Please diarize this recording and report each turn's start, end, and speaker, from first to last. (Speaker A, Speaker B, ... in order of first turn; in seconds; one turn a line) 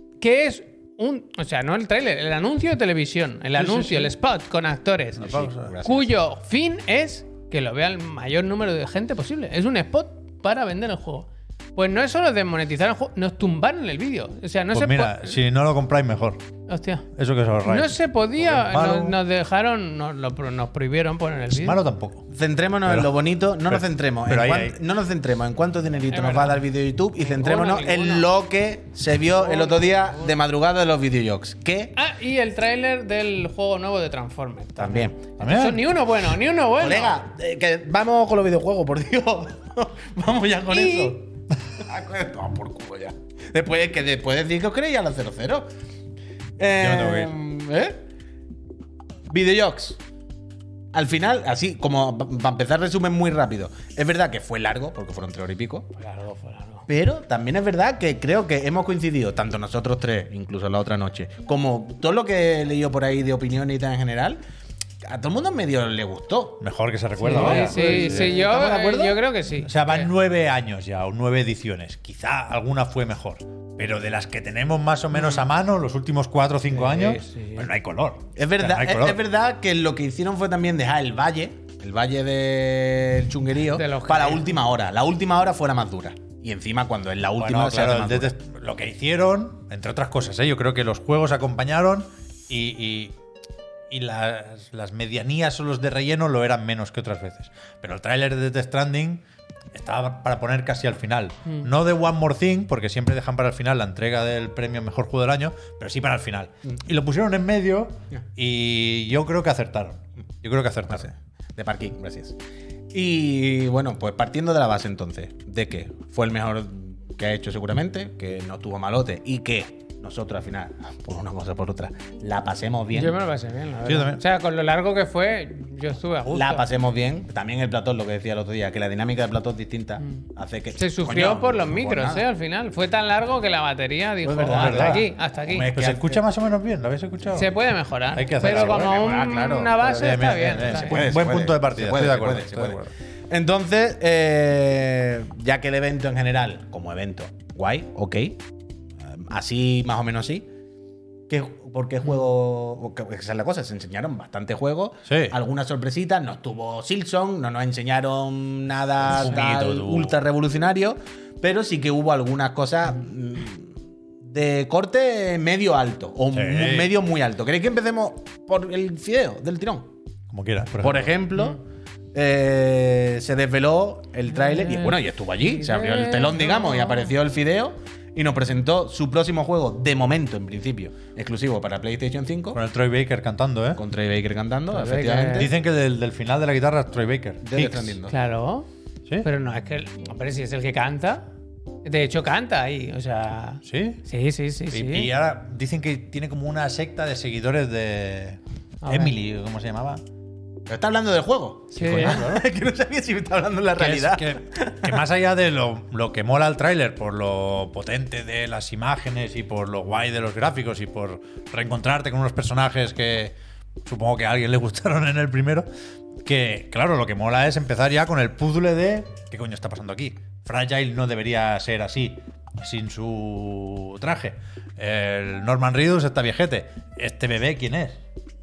Speaker A: 0.2-15.4
Speaker B: 3.5-4.1
Speaker B: 5.2-5.7
Speaker C: 5.2-6.1
Speaker B: 14.7-16.4
Speaker A: 16.7-17.1
Speaker B: 17.1-19.2
Speaker A: 17.6-21.8
Speaker B: 21.5-22.2
Speaker C: 22.3-32.0
Speaker B: 22.9-23.1
Speaker B: 23.7-24.7
Speaker A: 26.1-26.6
Speaker A: 27.2-28.3
Speaker A: 29.3-30.3
Speaker A: 31.9-37.1
Speaker C: 34.8-35.2
Speaker B: 35.4-35.8
Speaker C: 36.8-41.2
Speaker A: 40.7-41.1
Speaker C: 41.8-45.7
Speaker C: 46.6-48.0
Speaker B: 46.8-47.3
Speaker C: 49.3-50.0
Speaker C: 50.9-55.9
Speaker A: 56.0-56.9
Speaker C: 56.9-64.4
Speaker C: 65.0-66.6
Speaker B: 66.6-68.3
Speaker A: 67.2-70.1
Speaker C: 67.2-69.2
Speaker B: 69.6-79.2
Speaker A: 75.1-75.5
Speaker A: 76.7-77.7
Speaker C: 78.3-88.3
Speaker A: 83.7-84.5
Speaker B: 87.4-93.2
Speaker B: 93.9-111.1
Speaker C: 110.9-112.4
Speaker C: 112.9-123.1
Speaker A: 122.9-126.6
Speaker B: 123.8-124.2
Speaker C: 126.3-132.2
Speaker A: 130.8-135.7
Speaker C: 134.2-136.2
Speaker B: 134.6-135.1
Speaker B: 135.6-137.6
Speaker A: 137.3-141.0
Speaker B: 138.1-139.0
Speaker C: 138.4-148.4
Speaker B: 139.9-142.9
Speaker C: 149.1-150.5
Speaker C: 151.3-169.9
Speaker B: 155.1-155.3
Speaker B: 159.0-160.1
Speaker B: 166.3-166.9
Speaker B: 170.3-171.1
Speaker C: 170.8-171.6
Speaker C: 172.1-182.6
Speaker A: 174.3-177.1
Speaker B: 182.5-183.8
Speaker C: 183.8-185.5
Speaker A: 184.7-185.5
Speaker B: 185.3-188.0
Speaker C: 187.4-188.1
Speaker A: 188.1-188.7
Speaker A: 189.2-191.2
Speaker A: 191.8-195.1
Speaker B: 193.6-194.0
Speaker B: 194.7-200.0
Speaker A: 198.8-199.1
Speaker C: 200.7-205.0
Speaker A: 201.7-202.3
Speaker B: 201.8-202.4
Speaker B: 203.8-215.7
Speaker B: 216.2-228.0